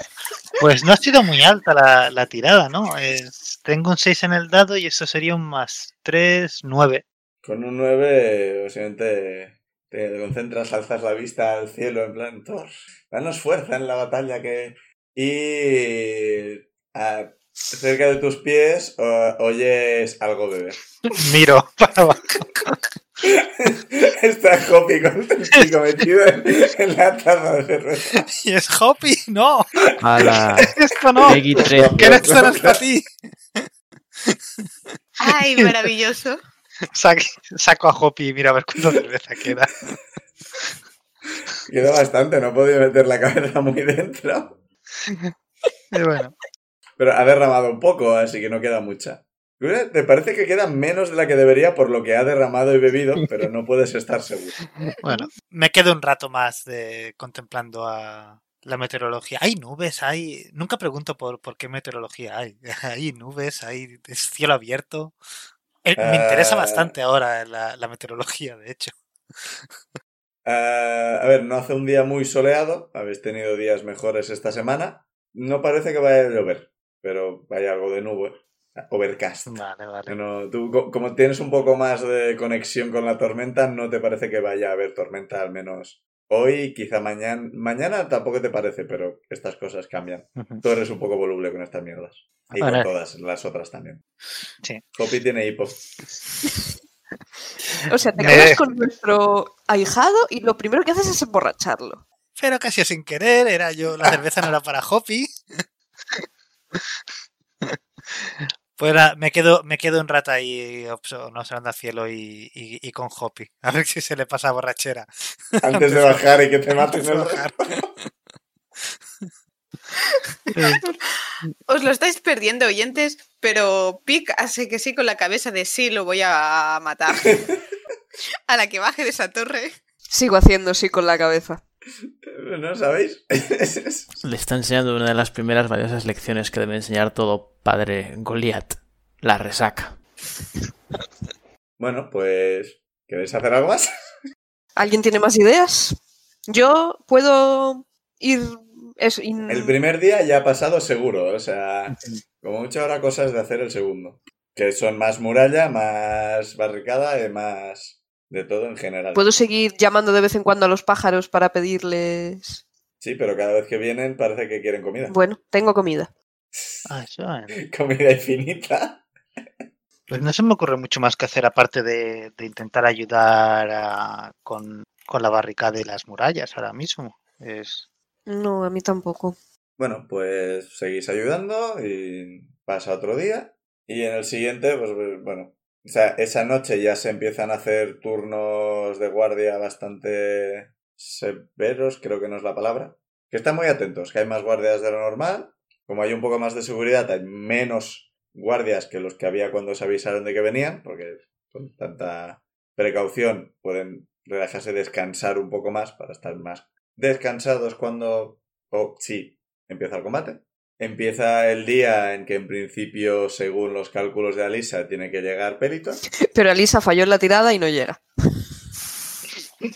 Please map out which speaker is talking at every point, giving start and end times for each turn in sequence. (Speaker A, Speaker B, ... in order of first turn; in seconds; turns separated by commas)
Speaker A: 0.6-7.0, Speaker B: 7.4-20.8, Speaker A: 21.1-22.8, Speaker B: 23.2-28.2, Speaker A: 28.1-29.9, Speaker C: 30.0-32.4, Speaker A: 30.6-33.7, Speaker B: 31.3-32.8, Speaker A: 34.2-34.7, Speaker D: 35.2-36.4, Speaker A: 35.2-35.9, Speaker A: 36.9-39.7, Speaker B: 41.6-44.6, Speaker A: 45.9-46.3, Speaker B: 47.0-54.6, Speaker A: 55.0-65.2, Speaker A: 65.8-68.9, Speaker B: 66.0-66.9, Speaker B: 70.4-79.5, Speaker A: 79.5-80.1, Speaker B: 80.1-94.0, Speaker A: 90.4-90.6, Speaker A: 92.5-92.9, Speaker B: 95.0-95.8, Speaker E: 97.8-102.0, Speaker A: 98.2-98.6, Speaker A: 102.3-105.3, Speaker A: 107.6-117.7, Speaker B: 115.6-117.8, Speaker A: 120.5-120.8, Speaker D: 120.7-127.4, Speaker D: 128.5-129.7, Speaker E: 130.1-131.6, Speaker B: 132.3-134.1, Speaker C: 134.2-140.0, Speaker B: 141.8-143.9, Speaker E: 144.8-149.8, Speaker B: 149.5-159.3, Speaker E: 159.1-162.6, Speaker B: 163.0-165.2, Speaker E: 165.1-166.1, Speaker A: 166.8-167.6, Speaker B: 167.6-169.0, Speaker A: 170.1-177.9, Speaker E: 178.3-179.3, Speaker B: 179.8-216.0, Speaker E: 216.2-218.0